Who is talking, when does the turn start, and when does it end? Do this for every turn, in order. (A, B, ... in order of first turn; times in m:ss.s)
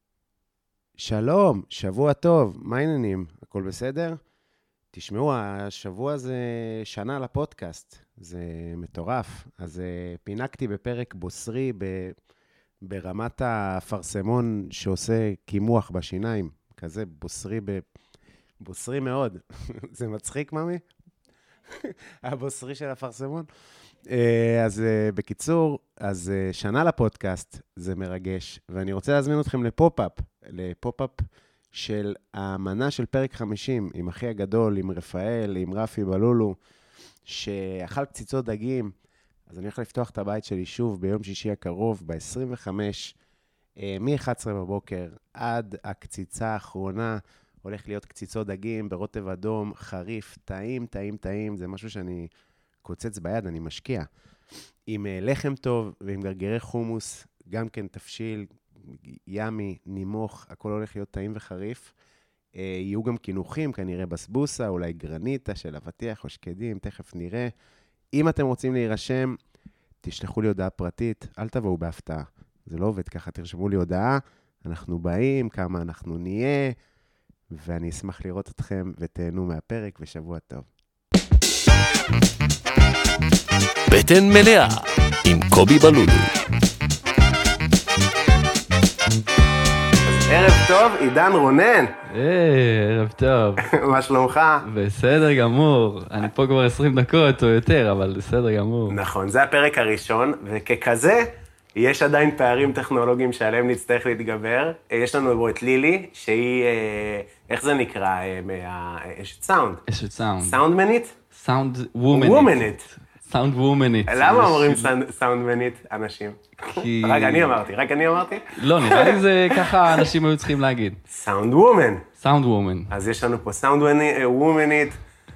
0:01.0-0:04.2 A
0:04.9-0:12.2 A
0:12.8-0:17.8 A
0:18.6-0:20.8 A
0:21.7-0:23.5 A
0:24.1-0:36.6 A
0:37.3-0:38.9 A
0:39.5-0:43.2 A
0:43.8-0:52.3 A
0:52.8-0:54.1 A
0:54.9-1:01.9 A
1:02.6-1:07.5 A
1:08.1-1:09.4 A
1:10.0-1:16.8 A
1:17.5-1:20.7 A
1:23.9-1:26.3 B
1:30.0-1:32.0 A
1:32.1-1:33.7 C
1:33.6-1:34.7 A
1:34.6-1:39.0 C
1:38.9-1:49.8 A
1:49.9-1:50.6 C
1:50.4-1:51.2 A
1:51.3-1:54.9 C
1:52.1-1:52.8 A
1:54.1-2:00.1 A
1:56.7-1:57.6 C
1:58.5-2:01.0 C
2:01.1-2:02.1 A
2:02.2-2:02.9 C
2:02.9-2:05.0 A